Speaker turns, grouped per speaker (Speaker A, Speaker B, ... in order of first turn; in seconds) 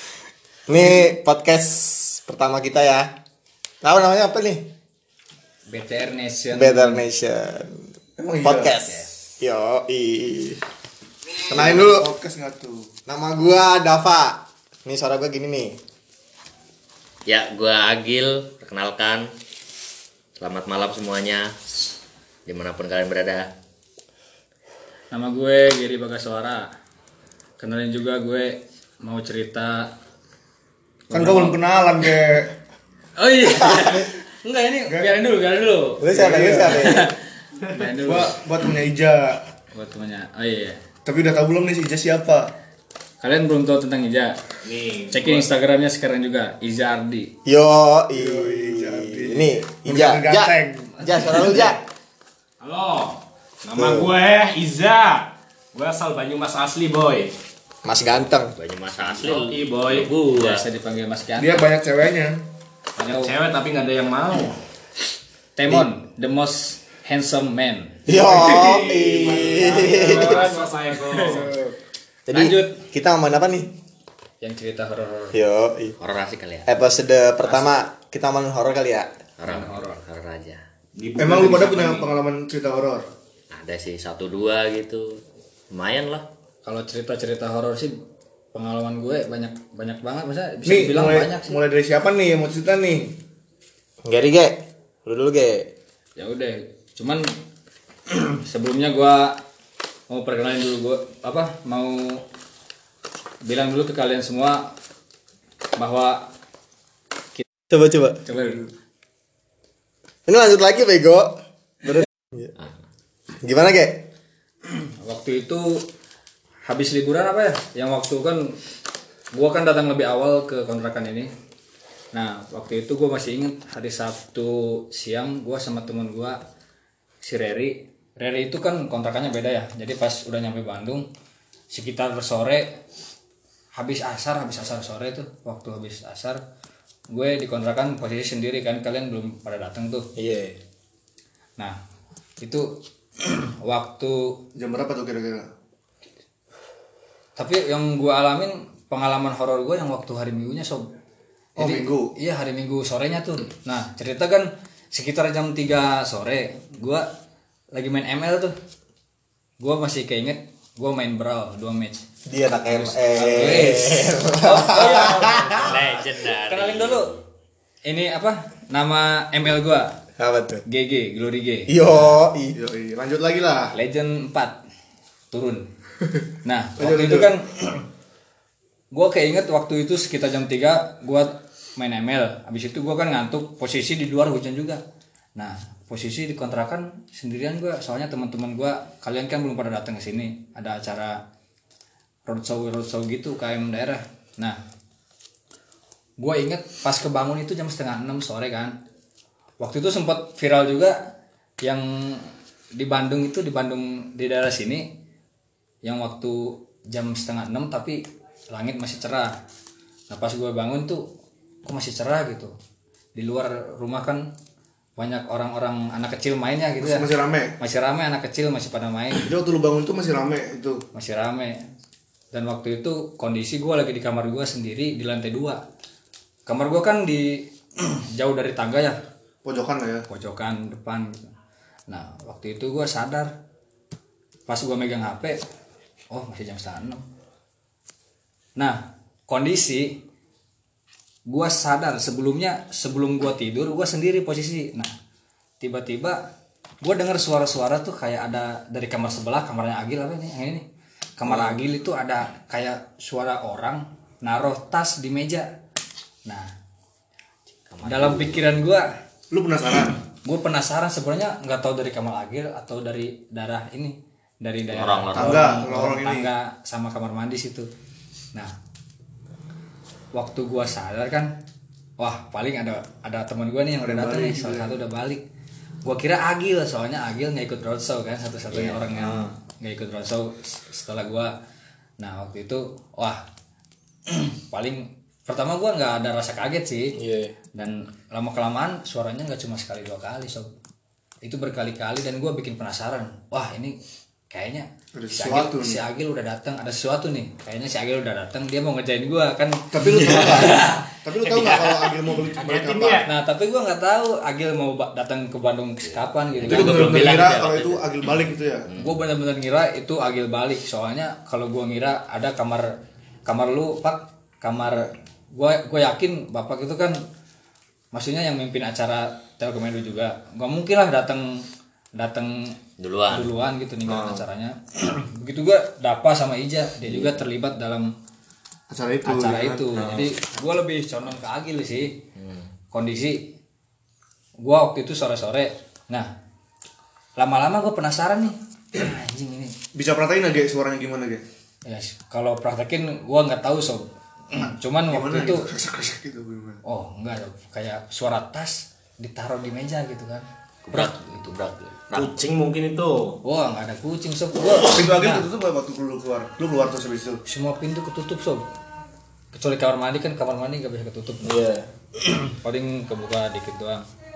Speaker A: 0.7-3.1, 3.8-4.6, 6.5-10.6, 11.5-12.1, 13.1-15.8, 36.0-37.1, 47.5-51.8, 53.7-54.2, 57.8-58.5, 68.0-70.5, 72.2-73.7, 75.3-76.0, 76.7-79.1, 94.0-95.7, 107.7-108.2, 110.3-111.3, 111.8-112.5, 113.4-114.1, 140.2-140.6, 162.3-165.8, 170.2-170.6, 171.7-172.6, 278.8-279.3, 287.0-287.3, 329.8-330.1, 361.2-361.7
Speaker B: 5.7-7.0, 8.8-9.1, 25.1-26.7, 27.6-29.9, 31.1-31.6, 33.1-38.3, 39.7-40.8, 43.2-44.3, 45.1-47.3, 60.3-61.7, 63.0-63.3, 65.5-68.0, 69.8-71.4, 72.3-72.8, 74.4-75.4, 79.5-80.0, 86.6-87.9, 88.5-91.5, 96.2-97.2, 98.1-99.4, 100.1-102.2, 103.4-104.7, 105.8-106.3, 108.2-108.6, 115.0-115.8, 116.7-118.5, 119.3-121.3, 122.1-126.4, 127.2-131.1, 131.7-132.7, 133.7-136.4, 137.1-140.1, 143.2-144.3, 147.4-150.8, 151.6-157.1, 157.7-158.5, 159.6-162.0, 162.7-165.9, 166.4-167.1, 167.8-169.9, 170.7-172.2, 173.7-174.6, 175.3-175.7, 176.4-177.8, 178.9-184.8, 185.3-191.2, 192.2-194.6, 196.2-198.7, 199.6-201.0, 201.6-204.9, 205.8-208.0, 208.5-209.3, 210.1-211.1, 211.6-212.5, 213.1-214.2, 215.0-217.1, 217.6-219.3, 220.9-221.6, 222.3-225.6, 226.5-228.9, 230.1-231.1, 231.9-233.3, 234.5-235.4, 236.1-237.0, 239.3-239.9, 241.3-244.9, 245.6-246.2, 246.8-250.6, 251.2-255.4, 257.8-258.9, 260.2-267.7, 270.1-271.3, 272.0-275.2, 275.8-281.3, 282.0-283.2, 284.1-286.9, 287.6-290.5, 291.2-293.8, 294.3-300.9, 303.1-307.1, 308.8-312.7, 313.2-317.0, 317.9-321.3, 322.0-322.5, 323.1-327.9, 329.0-331.9, 332.7-333.2, 334.4-336.1, 337.2-339.5, 341.7-345.5, 346.6-351.3, 353.2-355.3, 357.3-358.4, 359.3-361.4, 362.0-363.8
Speaker C: 8.2-8.7, 11.5-12.9, 31.1-32.5, 36.1-36.9, 37.9-39.4, 41.0-42.5, 48.1-51.1, 61.4-62.4, 71.3-71.7, 81.2-83.1, 90.6-93.1, 144.6-145.4, 151.6-152.1, 172.5-173.7, 176.8-177.3, 216.8-217.5, 219.2-220.8, 229.4-230.1, 259.3-260.0, 265.1-266.3, 273.8-274.8, 294.9-295.8, 299.7-303.1, 306.4-308.7, 323.9-324.2, 328.7-329.7, 339.7-341.2, 344.9-346.6, 354.4-357.2
Speaker D: 17.2-19.3, 20.4-21.5, 22.4-23.5, 58.5-60.6, 76.0-76.7, 79.4-80.6, 83.5-85.2, 85.7-86.3, 165.5-167.2, 257.7-258.4, 264.7-265.4, 301.3-301.9, 305.8-309.0, 322.8-323.3, 326.9-327.1, 332.1-332.5, 350.6-352.1
Speaker E: 44.6-45.5, 52.6-57.3, 59.0-60.2, 63.1-64.6, 68.1-71.6, 81.0-82.1, 302.3-303.1, 351.9-353.2